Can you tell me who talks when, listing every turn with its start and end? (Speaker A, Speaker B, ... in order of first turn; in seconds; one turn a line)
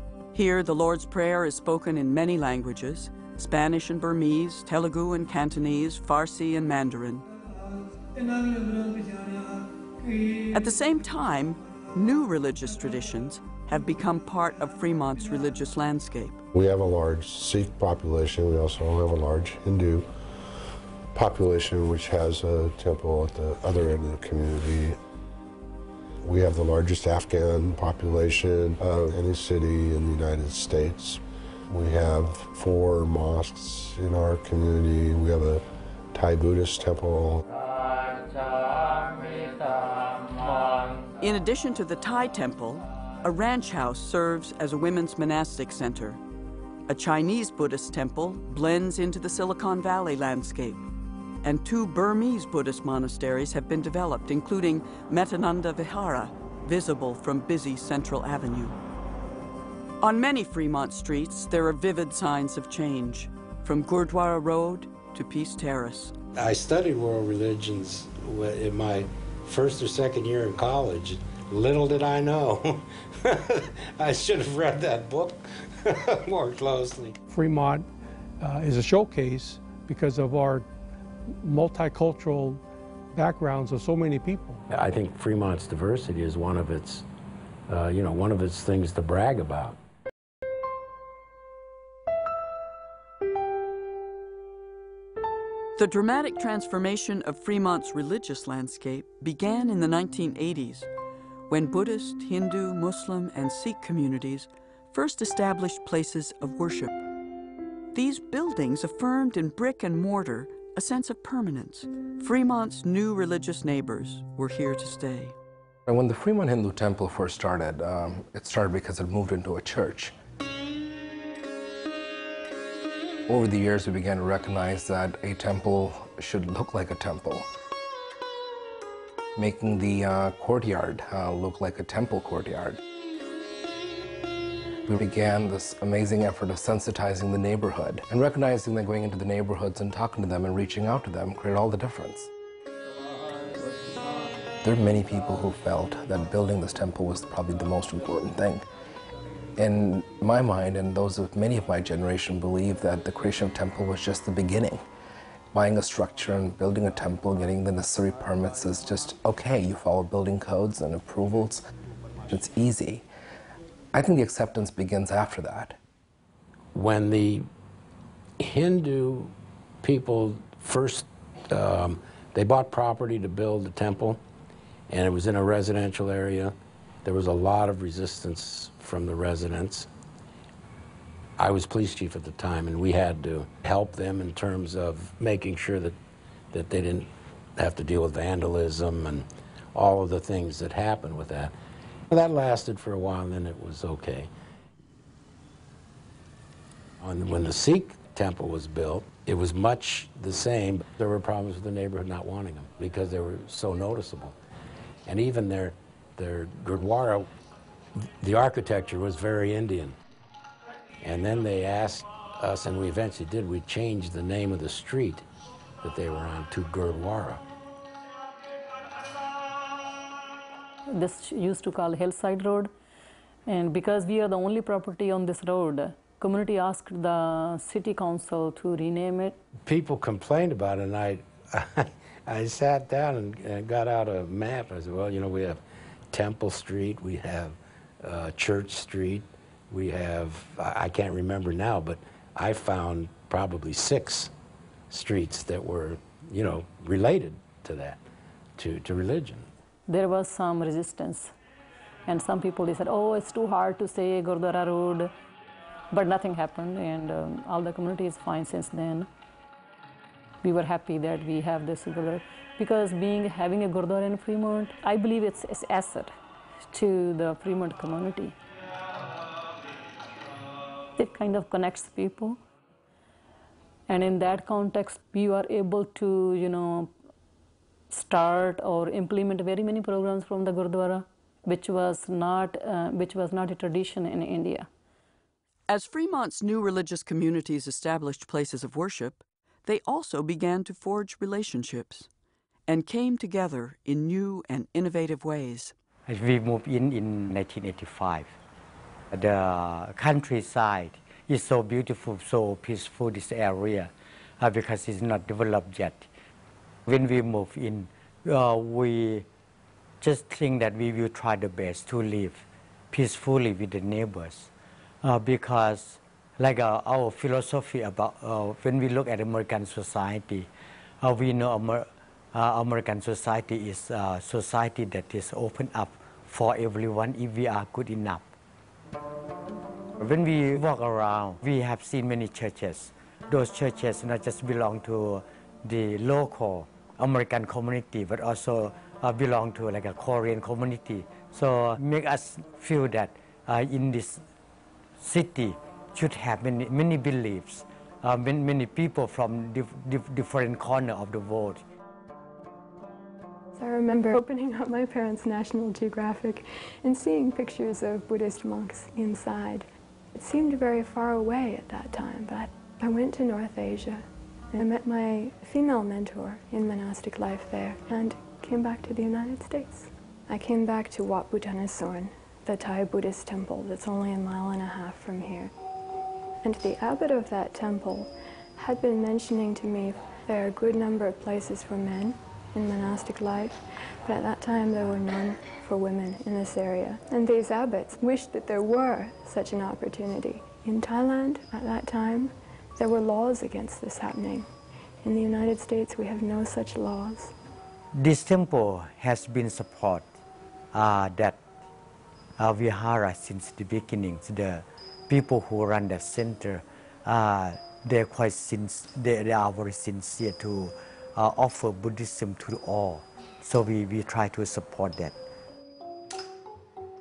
Speaker A: 0.3-7.3
Speaker A: 10.5-16.4
Speaker B: 16.5-20.1
Speaker B: 21.1-25.0
Speaker B: 26.2-37.4
Speaker A: 41.2-46.2
Speaker A: 46.9-50.8
Speaker A: 51.4-58.8
Speaker A: 60.0-66.1
Speaker C: 66.3-77.2
Speaker D: 77.3-77.9
Speaker D: 78.4-80.7
Speaker D: 81.4-82.6
Speaker D: 83.1-84.6
Speaker C: 84.7-87.0
Speaker C: 87.7-89.8
Speaker A: 95.8-100.9
Speaker A: 101.5-107.0
Speaker A: 107.9-115.3
Speaker E: 115.9-120.1
Speaker E: 123.3-127.5
Speaker E: 129.4-132.8
Speaker E: 134.9-142.3
Speaker E: 144.6-148.7
Speaker E: 149.6-154.8
Speaker E: 155.5-161.6
Speaker E: 162.3-163.1
Speaker E: 163.9-165.8
Speaker C: 166.7-167.5
Speaker C: 168.4-174.2
Speaker C: 174.9-179.9
Speaker C: 181.4-186.0
Speaker C: 186.5-191.5
Speaker C: 192.1-194.3
Speaker C: 197.0-204.4
Speaker C: 205.1-207.3
Speaker C: 208.0-210.0
Speaker C: 211.0-215.3
Speaker C: 215.8-217.4
Speaker F: 220.9-222.7
Speaker F: 223.5-229.4
Speaker C: 229.6-244.3
Speaker C: 244.9-248.0
Speaker C: 248.6-249.5
Speaker F: 249.9-251.3
Speaker F: 252.1-255.1
Speaker F: 255.9-259.1
Speaker F: 260.4-266.1
Speaker F: 266.7-268.4
Speaker F: 271.0-272.4
Speaker F: 273.9-276.9
Speaker F: 277.9-284.7
Speaker A: 285.7-292.1
Speaker A: 292.7-295.7
Speaker G: 296.1-298.3
Speaker G: 299.1-306.1
Speaker G: 306.9-309.3
Speaker G: 310.0-314.5
Speaker G: 315.0-320.5
Speaker G: 321.0-328.3
Speaker G: 330.0-344.2
Speaker G: 345.0-351.6
Speaker H: 353.6-375.5
Speaker H: 376.4-394.5
Speaker H: 395.0-397.3
Speaker G: 397.9-400.1
Speaker G: 400.7-401.4
Speaker G: 402.4-415.2